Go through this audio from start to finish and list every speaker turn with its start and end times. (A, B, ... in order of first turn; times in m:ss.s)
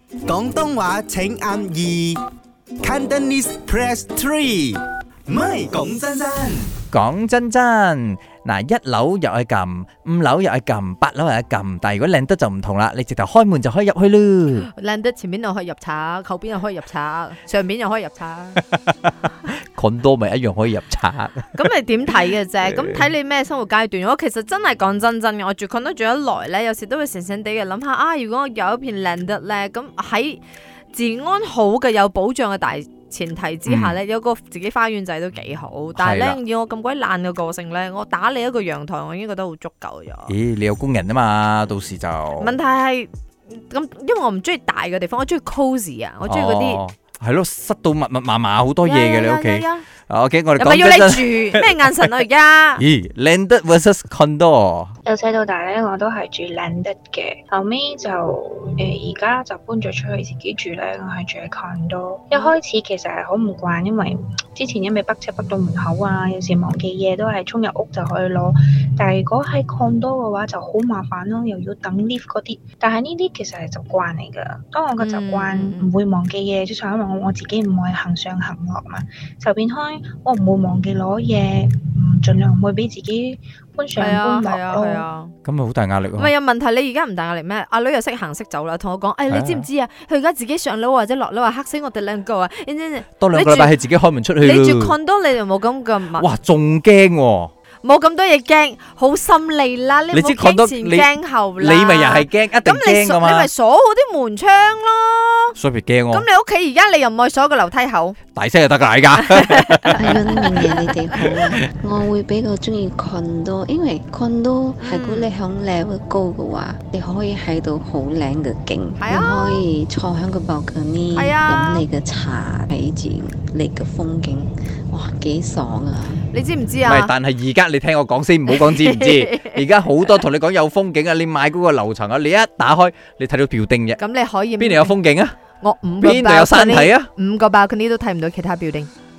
0:00.3-0:02.2 A
0:02.8-0:06.7 A
0:06.9-0:14.7 B
0:14.7-0:18.6 C
0:19.8-0:21.6 B
0:21.6-0:30.4 C
0:22.7-0:23.1 B
0:30.9-0:40.4 C
0:33.7-0:34.0 B
0:36.0-0:36.4 B
0:40.3-0:42.6 B
0:42.4-0:46.8 C
0:46.2-0:52.0 B
0:48.8-0:49.9 C
0:50.6-0:52.8 C
0:52.8-0:55.0 B
0:55.0-1:25.1 D
1:02.3-1:02.6 C
1:15.0-1:15.9 C
1:24.0-1:25.3 C
1:25.4-1:26.3 B
1:26.2-1:33.7 C
1:29.3-1:29.7 B
1:33.2-1:35.0 B
1:34.4-1:36.3 C
1:36.1-1:37.5 B
1:37.8-1:45.6 C
1:40.1-1:43.5 B
1:45.6-1:46.2 B
1:46.1-1:48.2 C
1:48.3-1:50.1 B
1:49.2-1:51.0 C
1:50.0-2:06.3 E
1:51.2-1:51.5 B
1:54.8-1:55.3 C
1:59.0-1:59.6 C
2:01.1-2:01.9 C
2:06.3-2:07.1 C
2:06.8-2:14.0 B
2:08.5-2:10.2 C
2:14.0-2:15.0 C
2:14.6-2:15.4 B
2:15.6-2:18.9 C
2:16.0-2:17.1 B